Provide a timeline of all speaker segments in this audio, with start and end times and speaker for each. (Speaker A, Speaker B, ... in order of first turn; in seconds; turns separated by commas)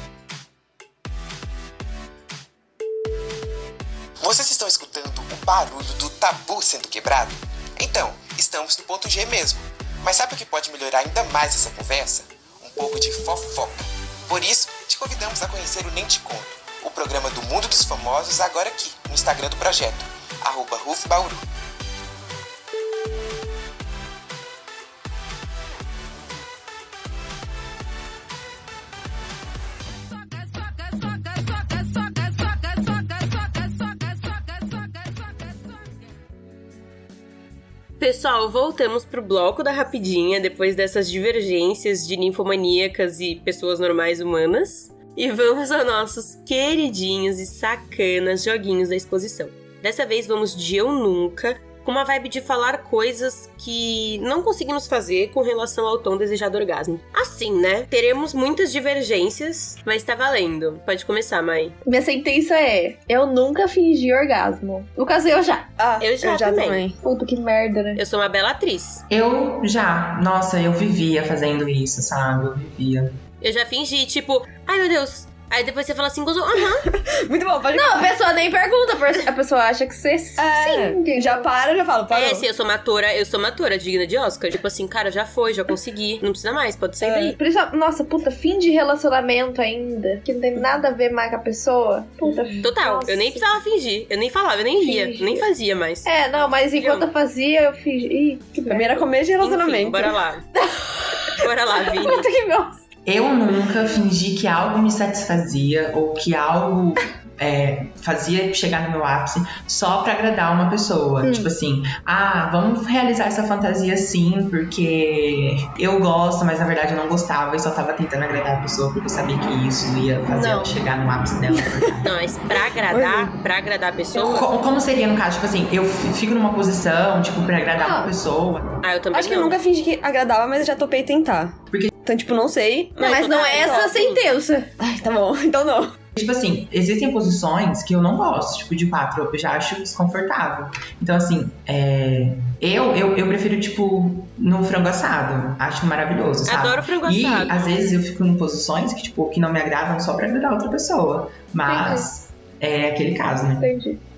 Speaker A: 4.2-21.4, Speaker B: 38.0-61.8, Speaker C: 61.8-65.7, Speaker D: 65.8-67.0, Speaker B: 66.0-66.8, Speaker C: 67.0-68.0, Speaker B: 68.0-69.0, Speaker E: 69.1-73.2, Speaker B: 73.4-76.9, Speaker D: 76.9-78.1, Speaker C: 77.7-81.5, Speaker D: 80.4-82.5, Speaker B: 82.1-87.4, Speaker D: 87.0-87.3, Speaker C: 87.4-93.5, Speaker B: 92.6-97.1, Speaker C: 94.8-95.5, Speaker C: 96.0-99.1, Speaker D: 98.6-100.2, Speaker B: 99.4-100.5, Speaker C: 100.5-102.8, Speaker B: 101.4-102.3, Speaker E: 103.0-122.2, Speaker C: 111.2-111.5, Speaker C: 120.3-120.7, Speaker B: 122.0-124.5, Speaker D: 122.9-123.3, Speaker E: 124.2-128.7, Speaker D: 127.8-128.1, Speaker B: 128.8-129.6, Speaker D: 129.1-133.9, Speaker B: 133.0-134.2, Speaker C: 133.0-134.7, Speaker D: 134.8-135.9, Speaker E: 136.1-153.7, Speaker B: 146.4-147.8, Speaker C: 151.7-152.1, Speaker C: 153.6-154.0